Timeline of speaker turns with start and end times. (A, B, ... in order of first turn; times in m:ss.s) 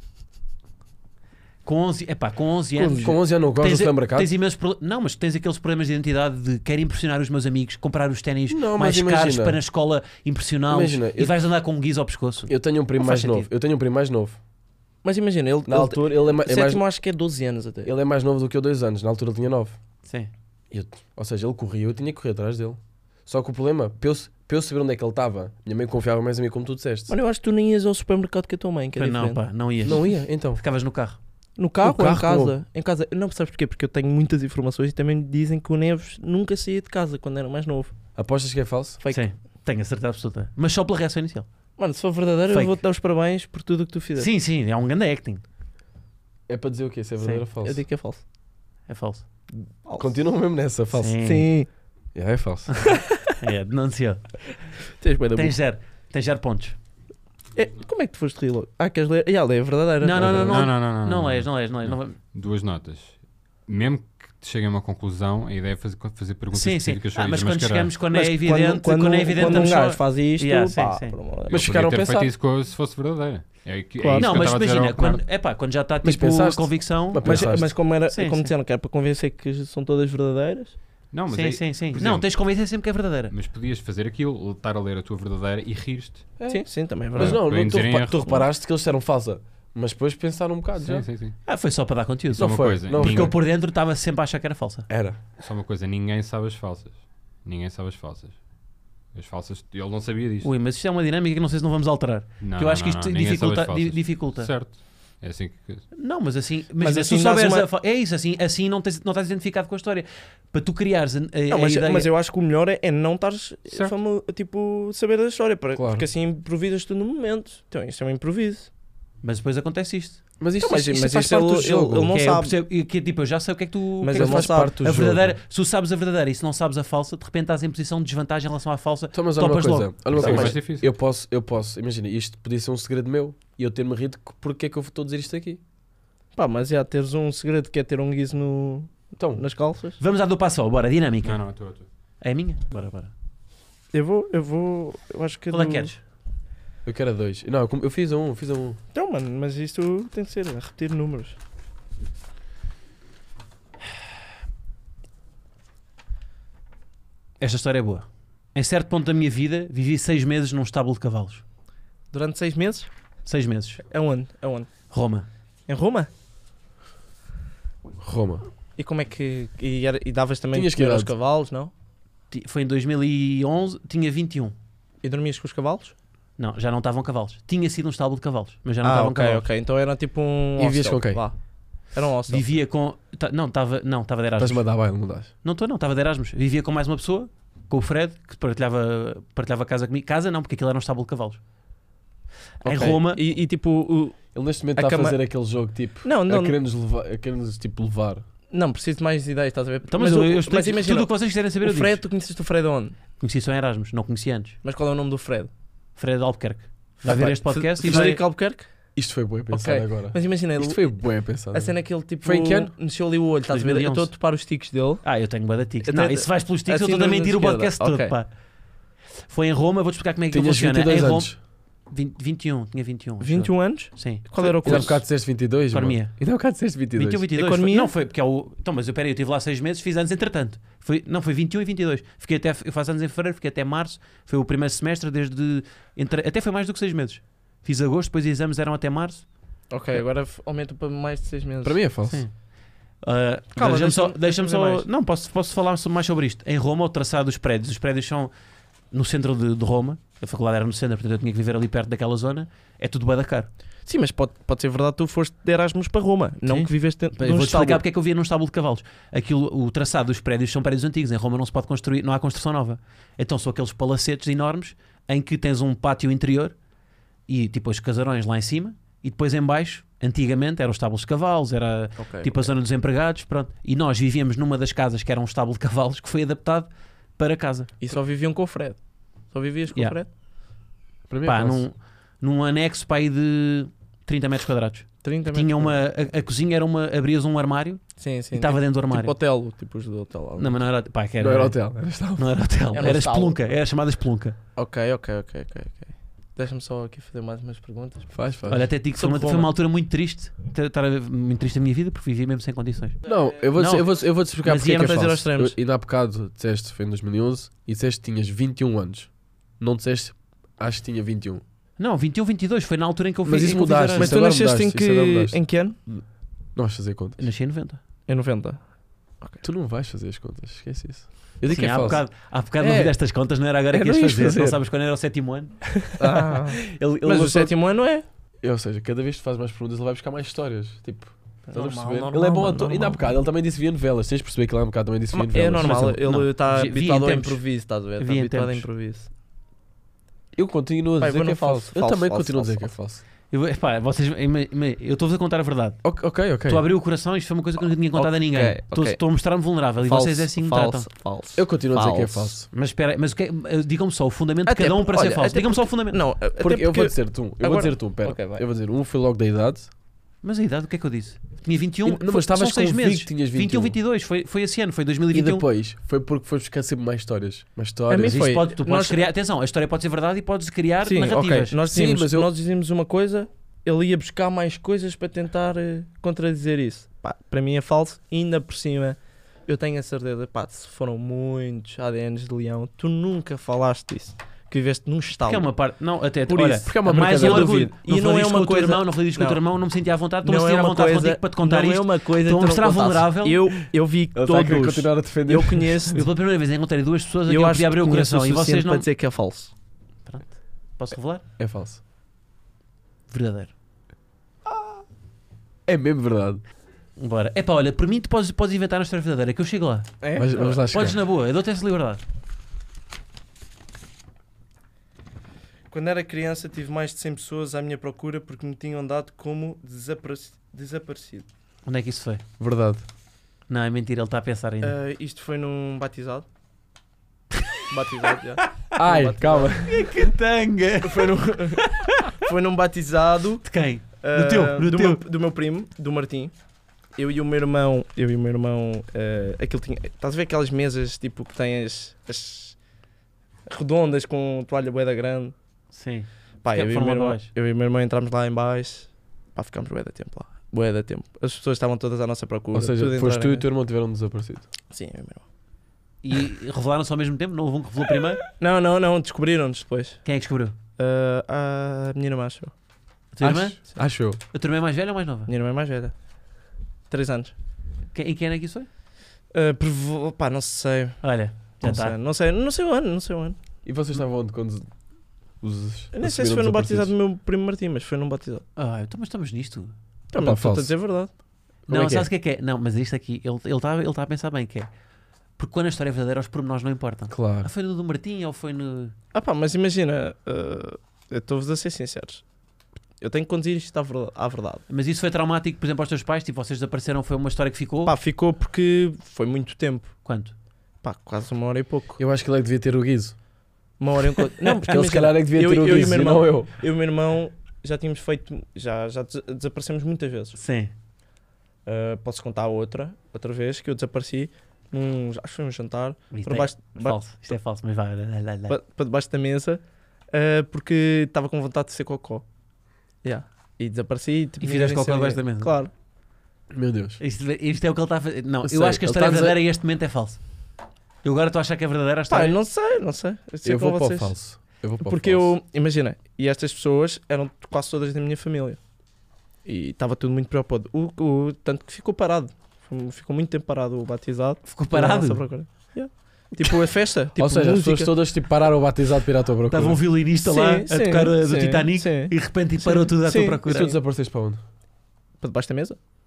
0:01.6-0:13.5 A
0:02.9-0:04.3 B
0:08.5-0:09.6 B
0:10.7-0:11.4 B
0:12.5-0:14.4 B
0:15.0-0:17.9 C
0:15.7-0:16.8 B
0:17.8-0:19.8 B
0:20.0-0:20.3 A
0:20.7-0:27.1 B
0:27.1-0:29.4 C
0:29.0-0:31.2 A
0:29.8-0:30.6 B
0:31.6-0:37.9 C
0:31.8-0:32.5 B
0:38.2-0:39.0 B
0:39.0-0:39.3 C
0:39.1-0:41.5 A
0:41.8-0:44.3 C
0:42.5-0:42.8 A
0:44.2-0:45.4 A
0:46.5-0:47.8 B
0:47.6-0:48.2 C
0:48.9-0:49.2 A
0:49.8-0:50.2 C
0:50.0-0:51.2 B
0:51.0-0:51.5 A
0:51.2-0:51.7 C
0:52.1-0:52.9 B
0:53.4-0:54.5 A
0:55.0-0:55.6 C
0:55.3-0:56.8 A
0:57.5-1:00.6 C
1:00.0-1:02.2 A
1:00.2-1:07.9 D
1:06.5-1:11.2 A
1:08.1-1:11.6 C
1:11.5-1:12.3 B
1:11.5-1:15.2 D
1:14.0-1:14.4 C
1:14.2-1:18.5 A
1:16.0-1:17.8 B
1:17.2-1:20.8 C
1:21.1-1:22.3 D
1:21.3-1:23.3 A
1:23.3-1:26.3 D
1:26.4-1:27.5 C
1:27.2-1:31.0 B
1:27.2-1:28.4 D
1:30.8-1:31.4 D
1:31.4-1:34.9 A
1:32.4-1:33.3 B
1:32.4-1:33.4 D
1:34.9-1:35.2 B
1:35.4-1:38.4 D
1:39.1-1:40.5 D
1:40.4-1:44.5 A
1:42.4-1:45.8 D
1:45.9-1:52.1 A
1:46.8-1:47.7 C
1:51.5-1:58.7 C
1:55.8-1:56.0 B
1:59.2-2:00.2 A
2:00.4-2:02.1 B
2:00.6-2:02.5 C
2:02.1-2:10.6 A
2:04.0-2:04.7 C
2:04.1-2:05.4 B
2:09.1-2:15.6 B
2:10.1-2:10.9 D
2:16.3-2:20.0 C
2:19.2-2:19.4 B
2:20.0-2:21.4 A
2:21.2-2:21.9 D
2:22.2-2:23.1 A
2:23.9-2:25.9 C
2:25.5-2:26.0 A
2:26.8-2:28.8 B
2:28.9-2:31.4 C
2:37.4-2:41.4 A
2:42.1-2:42.9 C
2:43.2-2:43.8 A
2:43.9-2:44.7 C
2:44.9-2:45.2 A
2:45.7-2:46.1 C
2:48.0-2:48.5 B
2:48.8-2:51.7 C
2:50.5-2:51.1 B
2:52.3-2:54.5 A
2:55.0-2:55.9 C
2:56.4-2:59.4 A
2:58.8-3:01.4 C
3:00.6-3:01.2 B
3:01.9-3:02.4 C
3:02.3-3:04.8 A
3:04.4-3:05.3 B
3:05.4-3:11.4 A
3:12.6-3:13.2 A
3:12.6-3:14.2 C
3:14.3-3:18.2 B
3:14.7-3:15.2 C
3:16.0-3:16.6 C
3:18.5-3:21.1 C
3:19.9-3:22.0 A
3:21.6-3:23.0 C
3:23.2-3:24.6 A
3:24.6-3:25.5 C
3:26.0-3:28.2 A
3:27.0-3:28.7 C
3:29.0-3:32.7 B
3:29.5-3:30.9 C
3:31.5-3:35.0 C
3:33.5-3:34.1 A
3:35.0-3:38.3 A
3:35.8-3:38.1 C
3:39.3-3:45.0 A
3:40.3-3:41.4 B
3:43.2-3:45.0 C
3:44.6-3:47.2 B
3:45.7-3:46.2 A
3:47.0-3:59.3 A
3:47.4-3:47.9 C
3:59.7-4:01.8 C
4:01.6-4:02.2 B
4:03.0-4:08.3 A
4:03.6-4:04.8 C
4:08.9-4:13.5 A
4:13.8-4:17.8 C
4:16.4-4:26.6 A
4:27.3-4:37.7 A
4:32.0-4:32.5 C
4:37.8-4:38.8 C
4:39.3-4:40.1 C
4:41.1-4:41.6 B
4:41.2-4:49.1 A
4:45.0-4:45.8 C
4:48.0-4:50.5 C
4:50.4-4:54.4 A
4:51.2-4:52.2 B
4:52.7-4:53.4 C
4:54.6-4:59.5 C
4:58.1-4:58.7 B
4:58.5-5:03.0 A
5:03.1-5:11.4 B
5:03.5-5:05.0 A
5:04.5-5:05.6 C
5:11.8-5:14.1 A
5:13.2-5:17.2 B
5:14.0-5:15.8 C
5:17.2-5:17.8 A
5:18.1-5:18.6 C
5:19.4-5:22.1 B
5:21.5-5:25.9 A
5:22.6-5:23.0 B
5:23.7-5:24.6 B
5:26.0-5:28.0 C
5:26.6-5:27.5 B
5:28.4-5:36.0 B
5:31.5-5:33.0 C
5:35.1-5:39.1 C
5:35.6-5:37.4 A
5:38.0-5:38.6 A
5:40.3-5:43.0 B
5:41.0-5:42.7 C
5:43.3-5:50.9 A
5:45.8-5:46.6 B
5:48.0-5:49.0 C
5:49.8-5:52.3 C
5:51.4-5:52.5 B
5:52.5-5:56.0 A
5:54.4-5:58.4 C
5:56.4-5:59.7 B
6:00.2-6:05.4 A
6:01.8-6:03.8 B
6:05.1-6:08.3 B
6:07.9-6:09.1 C
6:08.0-6:11.6 A
6:10.8-6:25.5 C
6:11.7-6:12.3 B
6:25.2-6:33.5 A
6:26.3-6:29.4 C
6:26.6-6:27.7 B
6:30.2-6:36.0 C
6:34.1-6:35.9 B
6:35.9-6:38.8 A
6:37.3-6:39.5 C
6:40.0-6:41.2 A
6:41.4-6:41.8 B
6:43.1-6:43.5 A
6:44.5-6:44.8 C
6:45.6-6:46.4 B
6:47.0-6:49.9 A
6:50.0-6:50.7 C
6:50.2-6:51.0 B
6:50.7-6:52.0 A
6:55.7-7:01.3 C
7:01.6-7:02.2 A
7:02.4-7:02.8 B
7:03.5-7:04.8 A
7:04.6-7:06.2 C
7:07.7-7:09.6 C
7:08.7-7:09.8 B
7:09.6-7:12.0 A
7:10.8-7:13.4 C
7:13.4-7:15.0 A
7:14.0-7:16.3 C
7:17.0-7:22.6 C
7:23.5-7:25.3 C
7:25.7-7:27.3 A
7:26.4-7:33.4 C
7:32.5-7:34.5 B
7:34.7-7:35.2 C
7:36.0-7:38.2 A
7:38.4-7:40.0 C
7:40.0-7:40.5 A
7:40.8-7:42.5 C
7:43.1-7:43.8 A
7:43.2-7:43.8 C
7:43.2-7:44.2 B
7:44.3-7:45.3 A
7:45.3-7:45.9 C
7:46.9-7:47.3 C
7:47.9-7:48.7 A
7:49.3-7:53.4 C
7:51.0-7:52.0 A
7:53.6-7:54.7 B
7:55.4-7:56.9 B
7:55.9-7:58.4 C
7:58.6-7:59.7 A
8:00.1-8:01.1 C
8:00.2-8:00.7 B
8:01.7-8:02.1 B
8:01.7-8:04.7 A
8:05.4-8:08.9 A
8:07.1-8:07.5 B
8:09.1-8:12.2 C
8:13.0-8:14.6 C
8:14.7-8:17.9 A
8:17.8-8:20.0 C
8:20.0-8:20.3 A
8:20.8-8:22.0 C
8:22.0-8:23.2 B
8:23.8-8:30.4 C
8:24.6-8:26.5 B
8:30.4-8:30.7 A
8:31.6-8:37.3 C
8:36.1-8:38.6 A
8:38.5-8:42.2 C
8:43.0-8:45.7 C
8:44.4-8:45.5 A
8:46.5-8:47.0 B
8:47.0-8:50.2 A
8:48.4-8:49.4 B
8:51.0-8:52.4 A
8:52.1-8:54.2 C
8:53.4-8:55.3 B
8:54.8-8:58.6 C
8:59.4-9:07.9 C
9:04.4-9:05.2 A
9:07.2-9:09.8 B
9:09.5-9:13.7 A
9:10.2-9:13.4 C
9:13.4-9:14.4 B
9:15.2-9:15.8 C